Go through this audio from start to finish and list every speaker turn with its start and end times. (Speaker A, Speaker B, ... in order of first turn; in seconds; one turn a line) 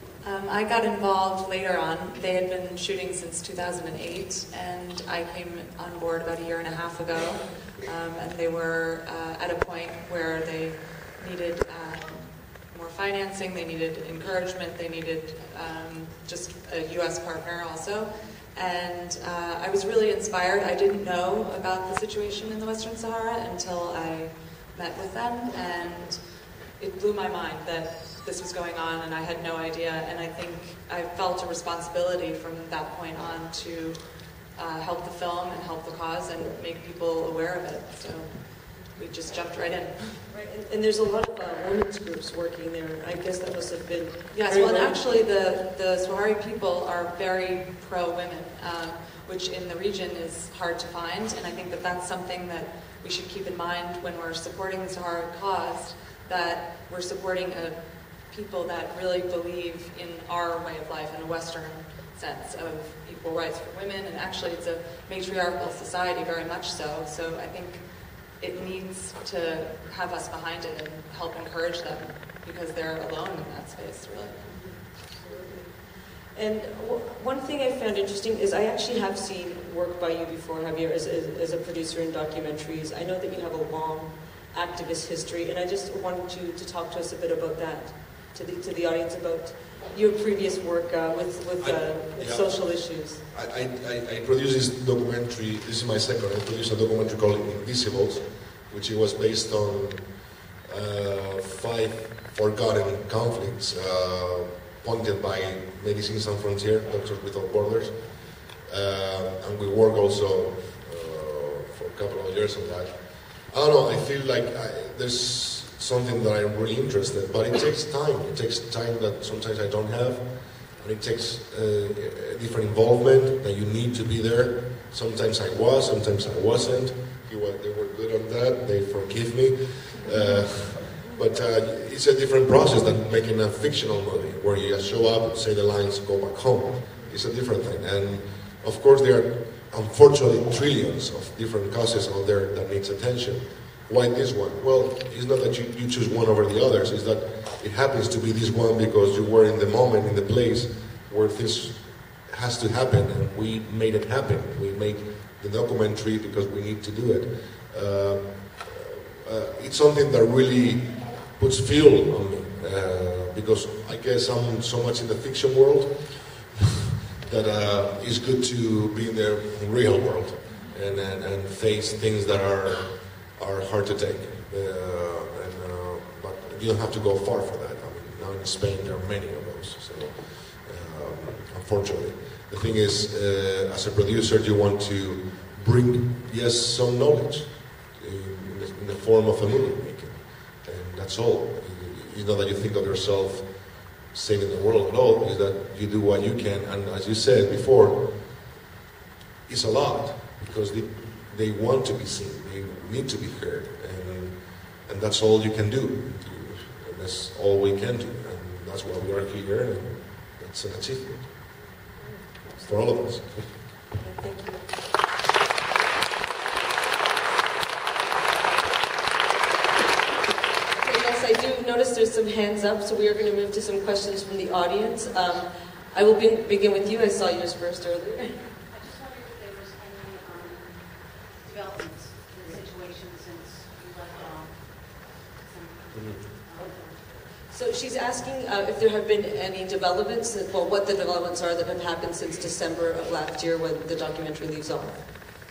Speaker A: 0.2-40.2
Speaker B: 40.3-45.1
Speaker A: 44.3-74.7
Speaker B: 74.5-93.2
Speaker C: 91.6-100.1
Speaker C: 100.6-112.9
Speaker C: 113.5-193.5
Speaker C: 194.1-198.1
Speaker C: 199.5-211.3
Speaker B: 212.4-212.9
Speaker C: 212.6-213.5
Speaker B: 213.9-214.8
Speaker B: 220.8-228.5
Speaker D: 228.7-237.0
Speaker C: 235.9-236.2
Speaker B: 237.5-245.1